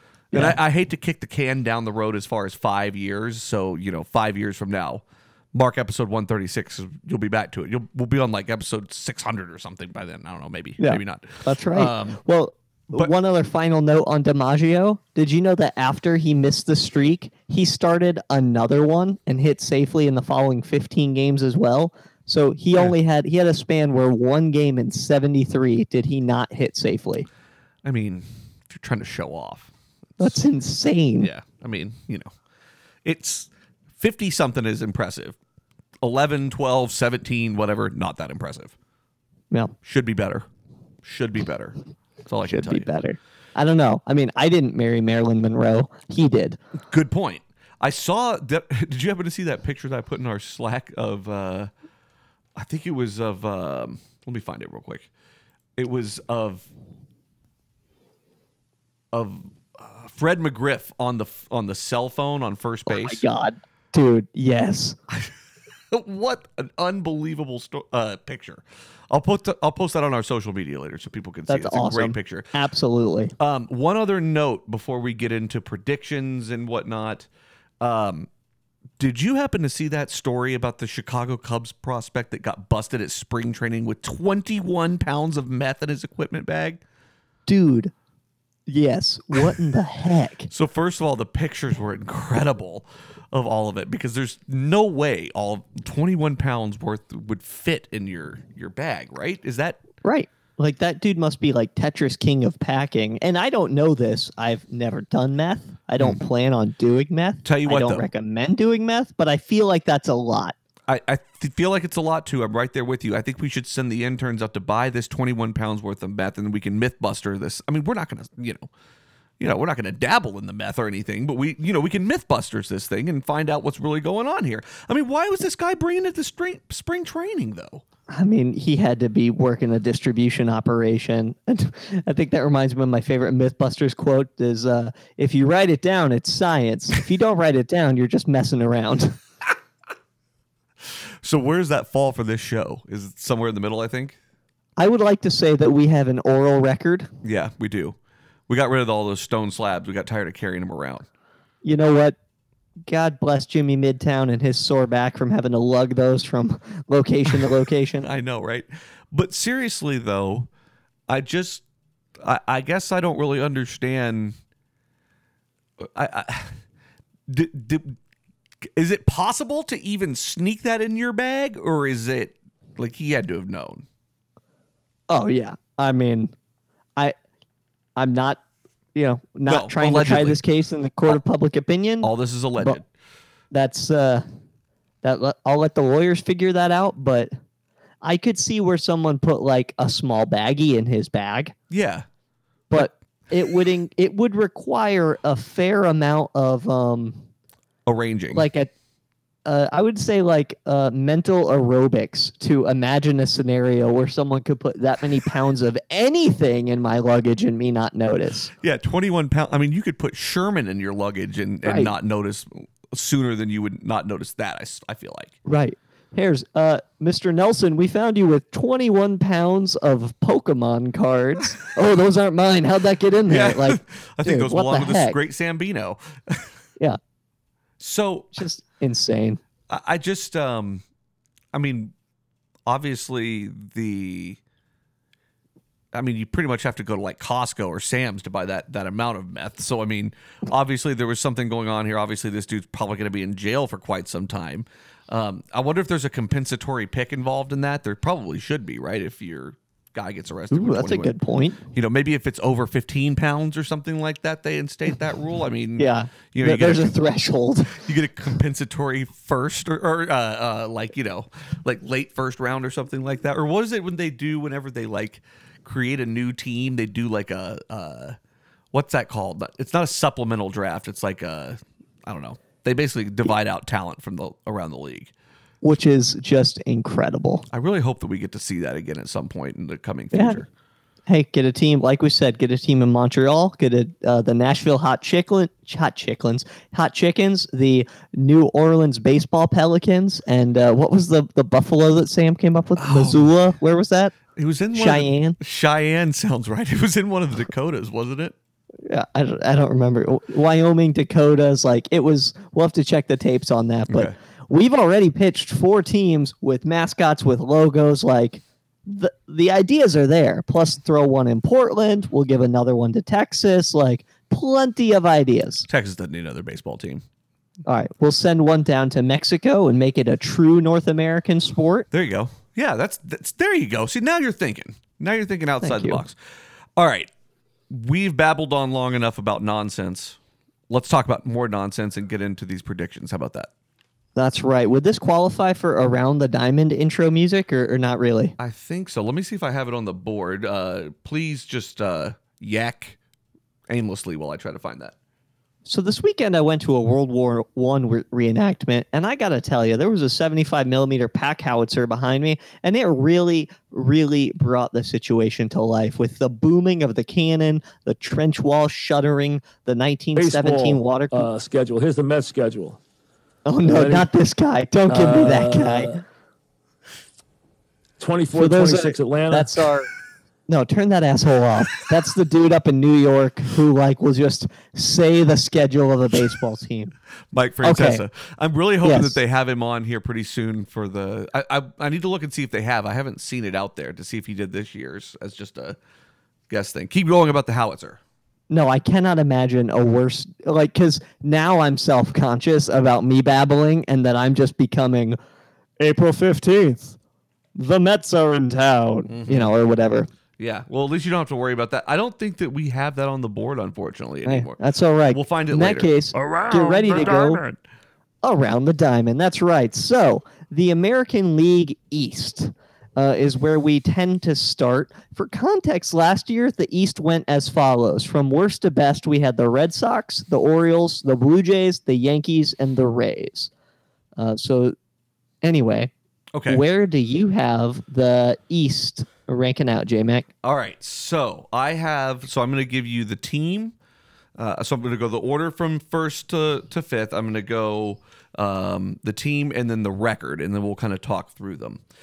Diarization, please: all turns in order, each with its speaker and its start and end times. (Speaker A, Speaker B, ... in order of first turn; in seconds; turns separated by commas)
Speaker A: 0.3-0.6, Speaker B: 0.3-12.2, Speaker A: 10.8-27.3, Speaker B: 27.8-30.4, Speaker A: 30.2-31.3, Speaker B: 31.2-32.3, Speaker B: 33.0-35.4, Speaker B: 36.0-38.7, Speaker B: 39.8-40.5, Speaker B: 41.0-42.9, Speaker A: 42.5-46.6, Speaker B: 46.9-51.7, Speaker B: 52.5-55.1, Speaker B: 55.8-56.7, Speaker B: 59.1-63.2, Speaker A: 62.9-65.0, Speaker B: 65.1-65.3, Speaker B: 65.9-72.5, Speaker A: 71.5-73.3, Speaker B: 73.4-77.3, Speaker B: 77.8-78.3, Speaker B: 79.0-86.8, Speaker A: 87.5-87.9, Speaker A: 88.7-90.5, Speaker B: 90.5-99.8, Speaker A: 100.0-110.5, Speaker B: 107.4-108.0, Speaker B: 110.9-118.7, Speaker B: 119.4-127.8, Speaker A: 128.1-139.2, Speaker B: 140.9-144.2, Speaker A: 144.8-147.1, Speaker B: 147.2-148.0, Speaker B: 148.5-151.1, Speaker A: 151.6-152.2, Speaker A: 152.9-158.1, Speaker B: 158.0-160.5, Speaker B: 161.1-161.6, Speaker B: 162.2-164.4, Speaker B: 165.8-166.6, Speaker B: 167.3-168.0, Speaker B: 168.6-173.9, Speaker A: 175.1-176.3, Speaker A: 178.0-178.4, Speaker A: 178.9-182.8, Speaker B: 179.5-180.4, Speaker B: 182.0-182.9, Speaker A: 183.5-184.2, Speaker A: 185.0-187.3, Speaker A: 188.0-191.5, Speaker B: 191.7-192.1, Speaker A: 192.7-197.2, Speaker B: 197.9-198.5, Speaker A: 198.3-198.7, Speaker A: 199.4-208.5, Speaker B: 208.6-215.3, Speaker A: 211.6-211.9, Speaker A: 215.4-225.2, Speaker B: 223.3-226.5, Speaker B: 227.8-228.4, Speaker A: 228.3-229.4, Speaker B: 229.7-230.8, Speaker B: 231.5-231.9, Speaker B: 232.7-234.4, Speaker B: 235.9-251.2, Speaker A: 250.5-251.6, Speaker B: 251.7-256.9, Speaker A: 255.8-257.9, Speaker B: 257.8-268.2, Speaker B: 268.7-275.1, Speaker A: 275.6-277.4, Speaker B: 277.5-280.5, Speaker A: 280.1-280.4, Speaker A: 281.1-294.1, Speaker B: 292.8-293.3, Speaker B: 294.3-298.3, Speaker A: 294.7-295.4, Speaker A: 298.9-315.7, Speaker B: 303.9-304.1, Speaker B: 315.7-317.0, Speaker A: 317.7-321.9, Speaker B: 321.9-326.2, Speaker A: 325.6-326.0, Speaker B: 326.8-327.1, Speaker B: 327.7-330.2, Speaker B: 330.7-333.5, Speaker A: 334.2-338.4, Speaker B: 338.4-343.0, Speaker B: 343.7-345.0, Speaker A: 345.6-361.3, Speaker C: 360.2-362.8, Speaker A: 363.5-365.9, Speaker C: 363.6-364.1, Speaker C: 364.9-366.0, Speaker C: 368.0-369.7, Speaker A: 368.3-369.9, Speaker A: 370.5-376.9, Speaker B: 377.3-385.8, Speaker A: 377.6-378.0, Speaker A: 378.8-379.2, Speaker B: 386.5-388.0, Speaker A: 388.5-395.2, Speaker A: 395.8-397.0, Speaker A: 397.5-400.1, Speaker B: 399.1-399.5, Speaker B: 400.4-404.6, Speaker A: 404.2-407.4, Speaker B: 405.1-405.9, Speaker C: 406.2-407.5, Speaker A: 408.2-423.5, Speaker A: 424.2-424.8, Speaker A: 425.4-425.9, Speaker B: 426.3-426.6, Speaker A: 426.5-430.3, Speaker B: 430.4-433.8, Speaker B: 434.4-441.8